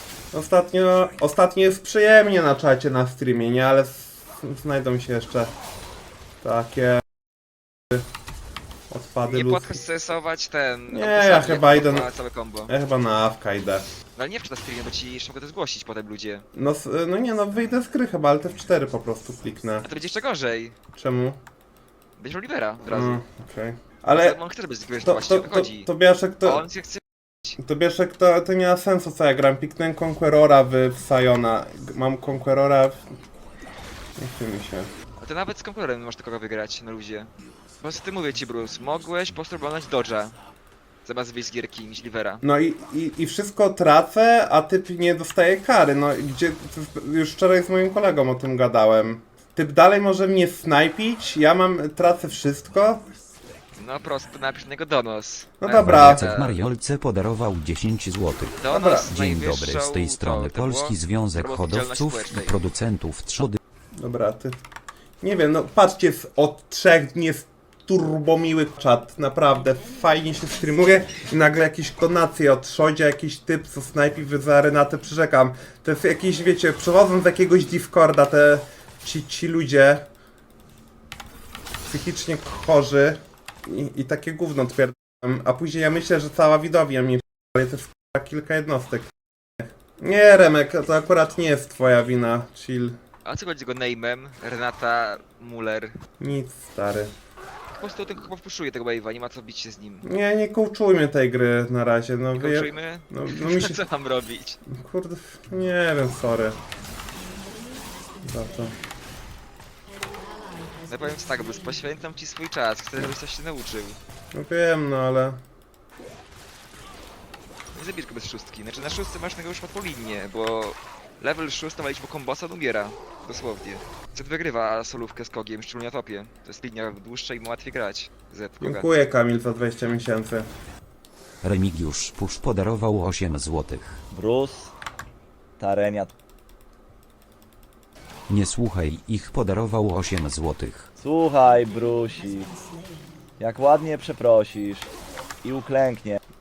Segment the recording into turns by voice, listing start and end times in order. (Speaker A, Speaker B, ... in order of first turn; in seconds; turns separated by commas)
Speaker A: 0.3-5.5, Speaker A: 6.4-7.0, Speaker A: 8.9-9.7, Speaker B: 9.3-12.7, Speaker A: 10.9-12.1, Speaker A: 12.7-13.8, Speaker B: 14.2-16.4, Speaker A: 16.5-19.9, Speaker B: 19.8-20.7, Speaker A: 20.9-21.4, Speaker B: 22.2-23.2, Speaker A: 22.9-24.4, Speaker B: 24.1-25.9, Speaker A: 25.0-26.6, Speaker B: 26.4-27.6, Speaker A: 27.6-33.0, Speaker A: 34.2-34.9, Speaker B: 35.2-37.3, Speaker B: 37.8-40.4, Speaker B: 41.0-42.4, Speaker A: 42.4-53.0, Speaker B: 53.7-56.6, Speaker A: 55.6-56.3, Speaker C: 55.7-63.6, Speaker B: 58.5-62.5, Speaker A: 58.7-59.1, Speaker A: 64.0-64.6, Speaker A: 65.2-80.0, Speaker A: 81.9-93.0, Speaker B: 93.2-96.0, Speaker A: 96.2-97.1, Speaker B: 97.7-100.0, Speaker A: 100.0-103.8, Speaker B: 102.4-104.6, Speaker A: 104.7-106.6, Speaker A: 108.2-108.8, Speaker B: 110.9-114.0, Speaker A: 114.3-115.4, Speaker B: 117.7-128.9, Speaker A: 128.6-130.5, Speaker C: 131.4-134.0, Speaker D: 134.1-134.7, Speaker D: 135.6-136.1, Speaker C: 138.3-140.9, Speaker D: 141.0-142.5, Speaker D: 143.4-144.9, Speaker D: 145.4-146.2